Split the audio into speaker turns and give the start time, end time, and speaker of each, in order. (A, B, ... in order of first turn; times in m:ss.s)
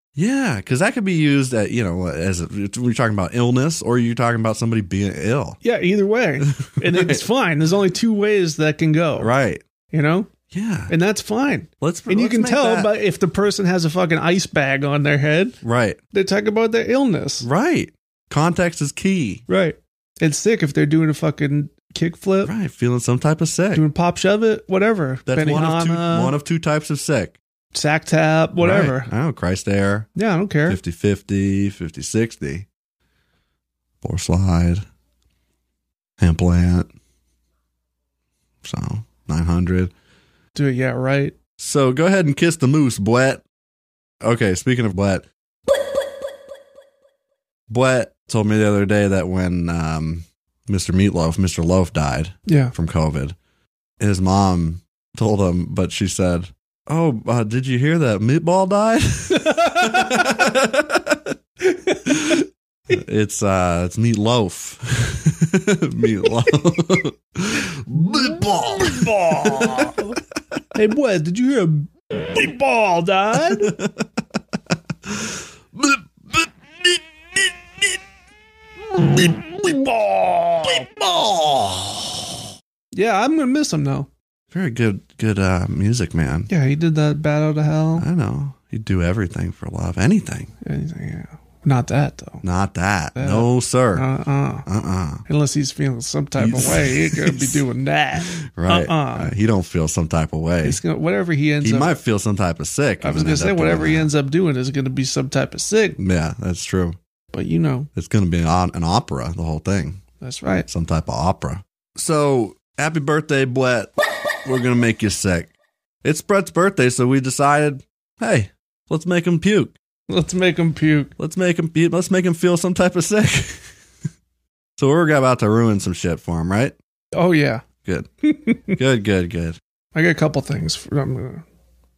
0:00.1-0:05.6 A
0:05.6-0:09.3 B
0:06.5-0:07.2 A
0:09.2-0:09.6 A
0:09.9-0:10.3 B
0:10.5-0:10.9 A
0:10.9-0:15.6 B
0:11.8-0:12.9 A
0:15.6-0:16.0 A
0:16.1-0:17.5 B
0:17.4-0:19.4 A
0:19.5-0:22.5 B
0:22.4-0:23.8 A
0:23.7-0:26.4 B
0:25.3-0:27.4 A
0:27.7-0:29.1 B
0:28.6-0:30.1 A
0:30.2-0:30.8 B
0:30.7-0:32.6 A
0:34.0-0:34.8 A
0:36.2-0:36.9 A
0:38.6-0:39.9 A
0:40.5-0:41.4 B
0:41.6-0:43.4 A
0:44.2-0:45.2 A
0:47.7-0:53.4 A
0:52.4-0:52.7 B
0:54.0-1:01.3 A
0:59.3-1:00.4 B
1:01.6-1:02.4 B
1:02.0-1:10.1 A
1:08.8-1:10.1 B
1:10.7-1:13.8 B
1:13.4-1:14.0 A
1:15.1-1:16.5 A
1:19.1-1:20.9 B
1:20.8-1:22.1 A
1:22.9-1:24.1 B
1:24.5-1:26.5 A
1:26.5-1:28.0 B
1:28.0-1:30.5 A
1:30.6-1:32.4 B
1:32.4-1:34.1 A
1:33.2-1:34.6 B
1:34.6-1:35.2 A
1:35.2-1:39.3 B
1:36.4-1:37.6 A
1:38.4-1:40.8 A
1:40.6-1:42.0 B
1:41.6-1:44.1 A
1:43.0-1:46.0 B
1:46.0-1:47.0 A
1:47.3-1:47.9 B
1:47.9-1:50.0 A
1:50.2-1:50.7 B
1:50.6-1:53.9 A
1:54.4-1:59.8 A
2:00.1-2:01.1 B
2:01.2-2:03.7 A
2:04.8-2:06.7 A
2:07.1-2:07.6 B
2:08.2-2:08.8 B
2:08.7-2:09.6 A
2:09.9-2:11.4 B